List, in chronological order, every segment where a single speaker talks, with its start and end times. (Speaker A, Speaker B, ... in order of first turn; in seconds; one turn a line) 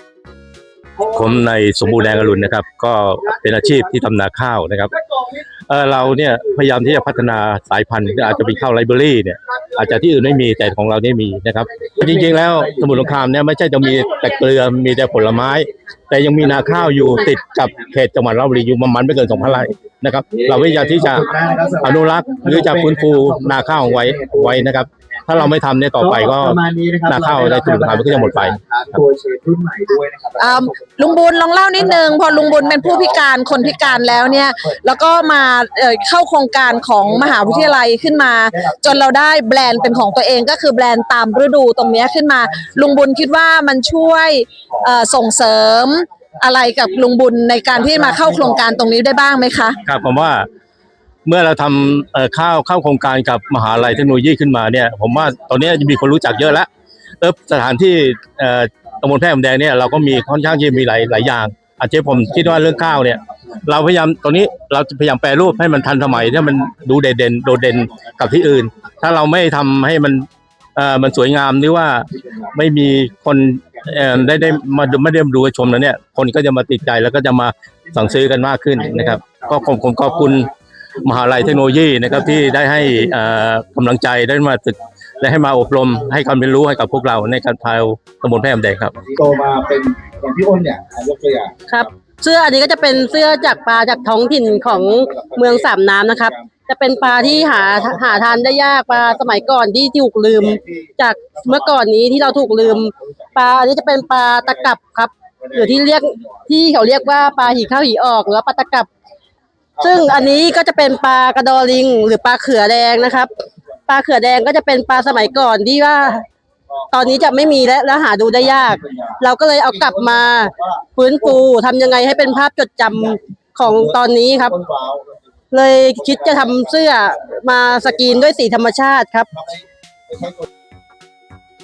Speaker A: 1.0-4.9
Speaker A: 5.7-28.6
Speaker B: 20.3-24.9
Speaker B: 26.0-34.8
Speaker C: 30.4-49.8
Speaker B: 36.8-38.0
Speaker B: 38.6-39.0
Speaker B: 40.0-40.4
Speaker B: 42.6-43.1
Speaker B: 47.7-48.8
Speaker A: 49.9-50.5
Speaker A: 51.2-56.7
Speaker A: 57.2-80.5
Speaker B: 62.5-62.8
Speaker B: 73.8-74.8
Speaker B: 78.8-80.5
Speaker A: 81.0-89.0
Speaker B: 89.0-91.5
Speaker D: 91.7-108.9
Speaker B: 92.9-99.6
Speaker B: 100.4-100.9
Speaker B: 101.4-104.7
Speaker B: 105.4-106.4
Speaker B: 107.0-107.6
Speaker D: 109.8-113.3
Speaker B: 112.9-113.2
Speaker D: 113.9-116.2
Speaker B: 114.9-115.4
Speaker B: 116.7-120.8
Speaker D: 116.9-124.5
Speaker B: 121.9-122.3
Speaker B: 123.0-125.2
Speaker D: 125.5-129.3
Speaker B: 126.0-126.9
Speaker B: 127.8-128.1